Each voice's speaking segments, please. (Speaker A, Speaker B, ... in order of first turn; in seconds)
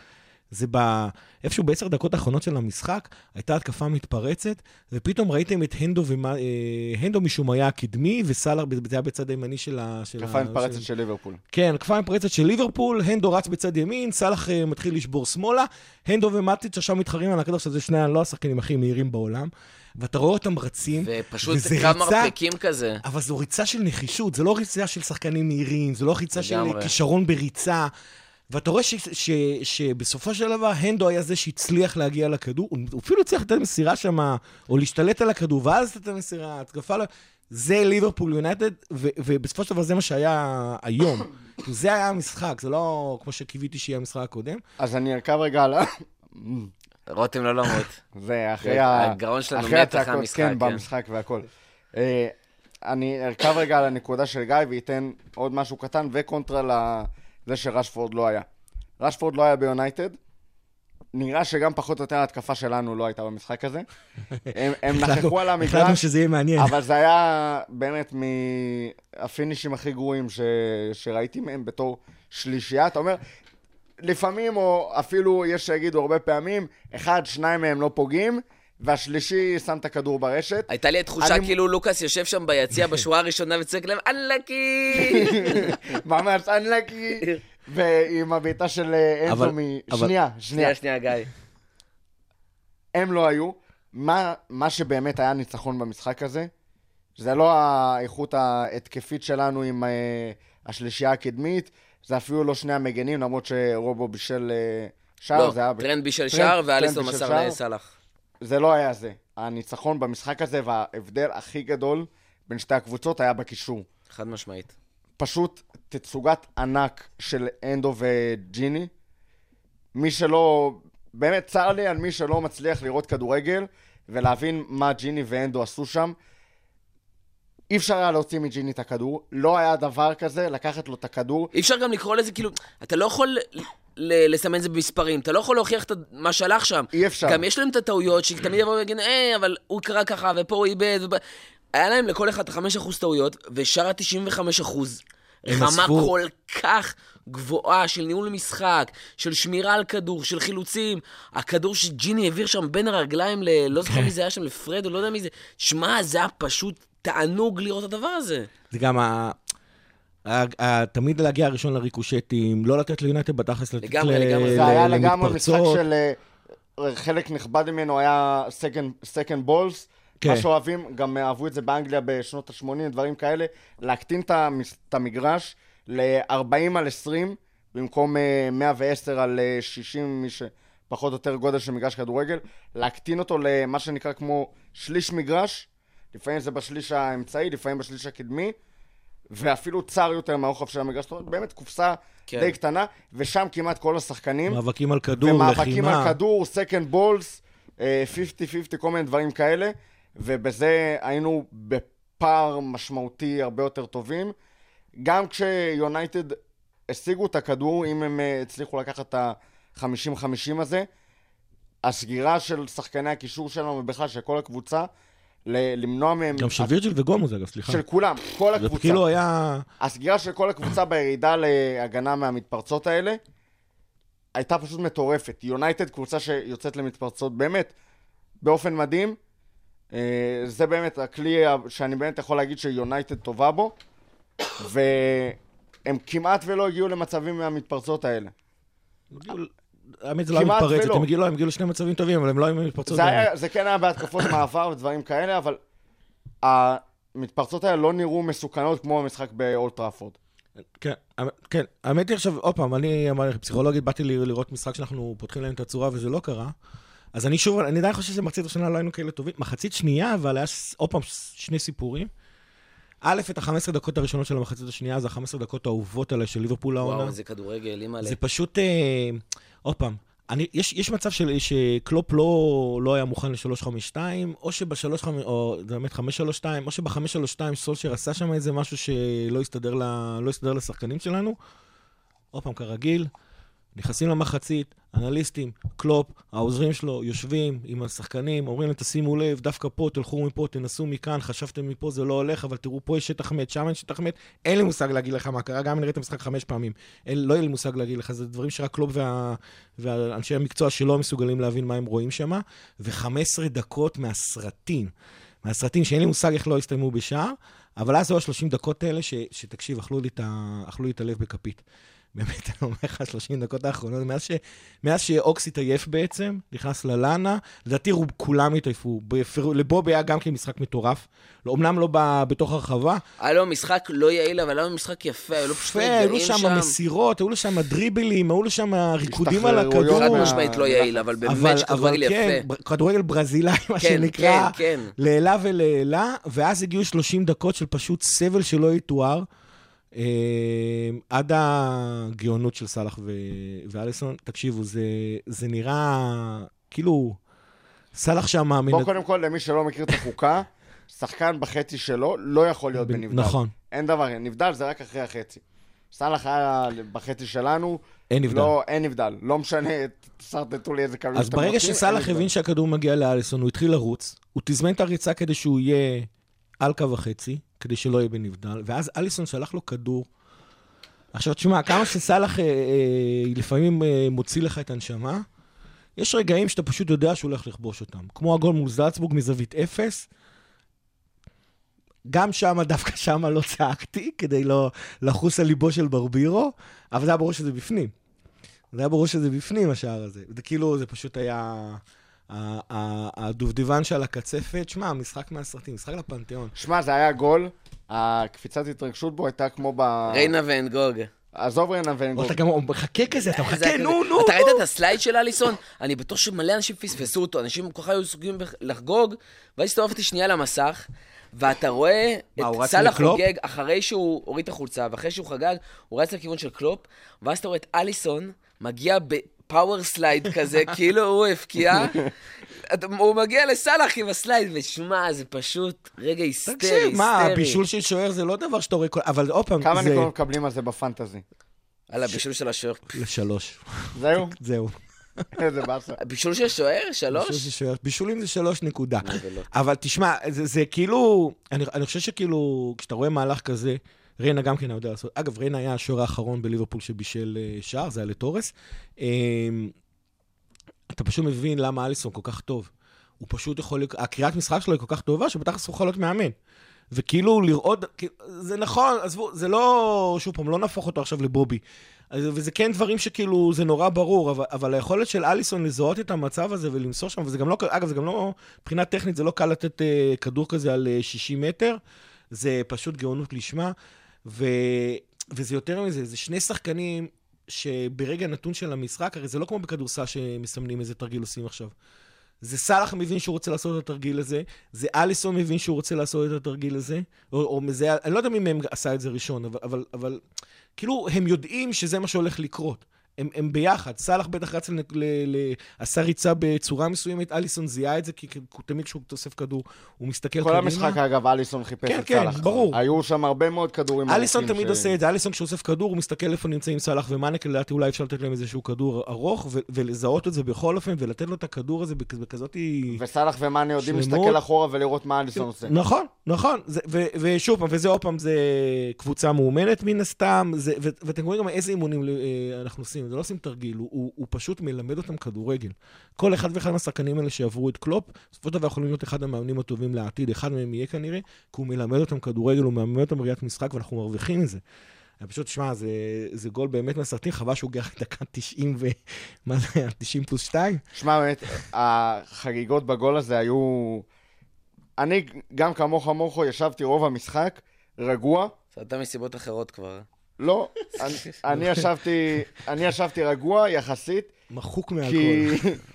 Speaker A: 0.5-10.8, 11.5-22.3, 23.0-27.9, 28.5-44.6, 64.5-66.7, 89.3-90.1, 145.5-146.1, 158.7-159.4, 160.2-165.8, 194.5-196.2, 216.4-217.8, 218.6-219.7, 239.1-239.5, 240.0-243.3, 250.8-256.5, 257.1-262.1, 263.0-267.1, 268.0-281.4, 282.3-283.1, 283.7-304.9, 305.4-323.0, 325.4-330.4, 331.2-339.2, 339.9-347.2, 347.9-348.9, 352.8-353.5, 358.1-358.5, 361.1-366.1, 366.6-370.1, 371.1-375.2, 375.9-380.1, 382.1-387.9, 388.7-396.5, 402.2-404.6, 412.4-413.2, 426.5-430.1, 432.9-435.2, 437.1-449.7, 450.9-456.3, 456.9-471.8, 472.3-473.7, 474.2-481.7, 482.4-490.2, 490.8-501.0, 501.9-502.8, 504.1-513.0, 513.8-514.4, 515.4-534.6, 535.2-540.8, 554.5-555.6
Speaker B: 10.2-11.4, 44.8-46.7, 48.1-58.5, 59.0-60.2, 61.1-63.9, 64.5-66.0, 66.6-73.2, 74.0-80.7, 81.2-81.5, 85.0-90.7, 92.9-96.5, 97.2-107.5, 108.4-113.8, 115.2-118.9, 119.9-126.1, 127.7-131.5, 136.9-137.4, 164.5-166.2, 166.8-188.5, 189.3-194.6, 195.2-204.3, 205.0-206.4, 206.9-210.8, 211.8-214.9, 215.4-216.7, 217.7-219.0, 219.8-223.2, 224.3-227.7, 228.4-229.2, 229.9-233.7, 234.6-238.3, 240.3-241.1, 242.9-245.6, 246.4-250.2, 329.1-331.0, 348.7-362.3, 396.6-400.3, 401.3-402.4, 429.6-431.2, 433.9-434.4, 435.3-436.0, 500.4-504.9, 512.9-515.7, 540.9-544.0, 545.0-548.5, 550.4-554.3, 555.0-555.8
Speaker C: 21.0-23.0, 26.4-26.9, 47.1-48.0, 48.6-50.8, 80.7-85.8, 90.5-91.3, 105.3-107.9, 114.1-114.7, 131.5-141.2, 141.7-158.5, 163.8-164.8, 192.3-192.5, 266.8-268.2, 323.2-326.7, 329.9-332.4, 333.8-334.9, 400.1-401.1, 403.4-422.1, 422.6-427.6, 431.9-432.9, 436.0-437.5, 439.0-439.5, 548.7-550.0